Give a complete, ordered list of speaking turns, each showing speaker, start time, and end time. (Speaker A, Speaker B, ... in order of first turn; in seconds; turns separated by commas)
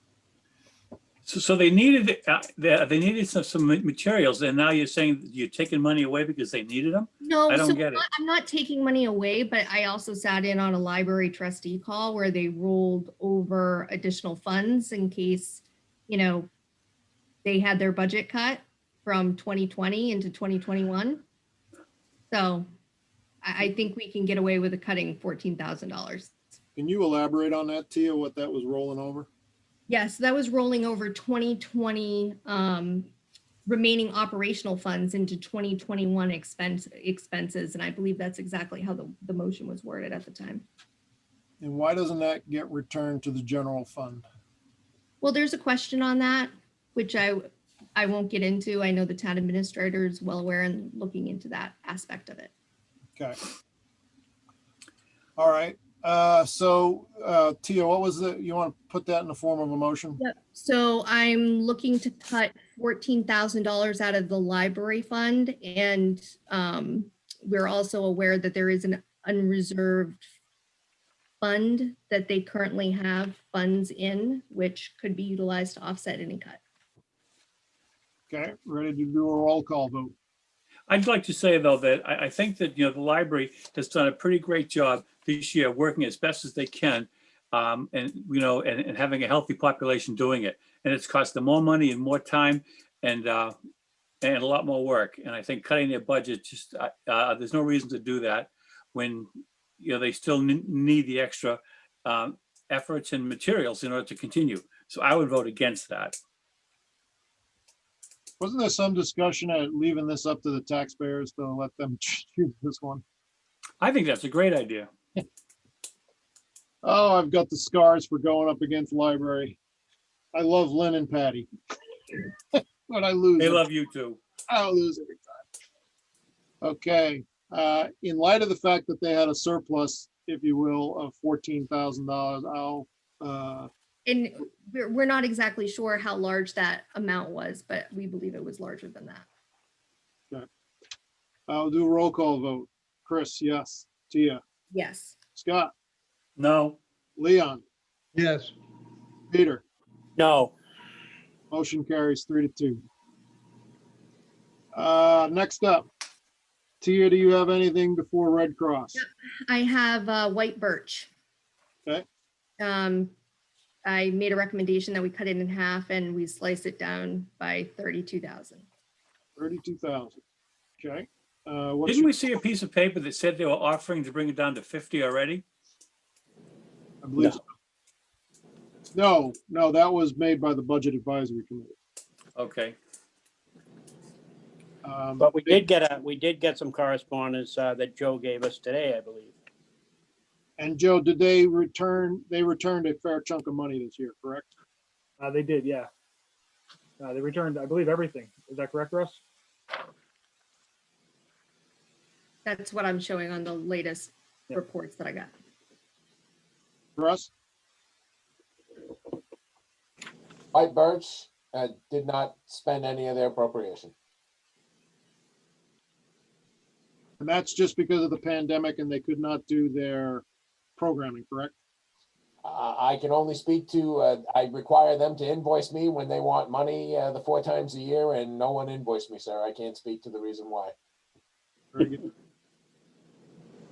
Speaker A: 1.2-8.0, Speaker B: 7.2-16.5, Speaker B: 17.4-21.2, Speaker B: 22.3-22.7, Speaker B: 23.4-26.3, Speaker C: 26.8-29.3, Speaker B: 29.9-33.1, Speaker B: 33.6-40.6, Speaker C: 41.6-44.2, Speaker B: 45.2-52.5, Speaker C: 55.4-60.2, Speaker B: 60.2-70.2, Speaker B: 71.4-76.6, Speaker C: 78.3-80.1, Speaker A: 80.9-93.5, Speaker A: 94.2-106.2, Speaker C: 108.4-113.0, Speaker A: 113.8-114.9, Speaker C: 116.8-119.6, Speaker C: 120.3-121.5, Speaker C: 122.1-123.6, Speaker A: 123.4-124.2, Speaker C: 124.5-125.4, Speaker C: 126.6-133.7, Speaker B: 134.1-139.2, Speaker C: 141.5-144.4, Speaker B: 144.7-145.2, Speaker C: 145.3-145.7, Speaker A: 146.4-146.8, Speaker C: 147.2-147.6, Speaker C: 149.3-149.6, Speaker D: 150.2-150.5, Speaker C: 151.5-152.8, Speaker C: 154.7-155.9, Speaker C: 156.8-159.0, Speaker B: 158.9-161.1, Speaker B: 162.6-163.1, Speaker B: 163.8-168.7, Speaker C: 169.3-170.2, Speaker C: 170.8-172.2, Speaker A: 171.8-175.4, Speaker C: 177.0-177.4, Speaker C: 178.9-181.7, Speaker A: 182.3-182.8, Speaker C: 184.8-185.6, Speaker D: 185.2-189.3, Speaker C: 190.6-194.5, Speaker E: 195.2-195.9, Speaker E: 197.0-199.2, Speaker B: 202.4-205.3, Speaker C: 206.9-207.3, Speaker F: 210.5-213.9, Speaker C: 217.2-220.2, Speaker C: 220.8-221.6, Speaker F: 222.4-230.7, Speaker C: 231.7-232.1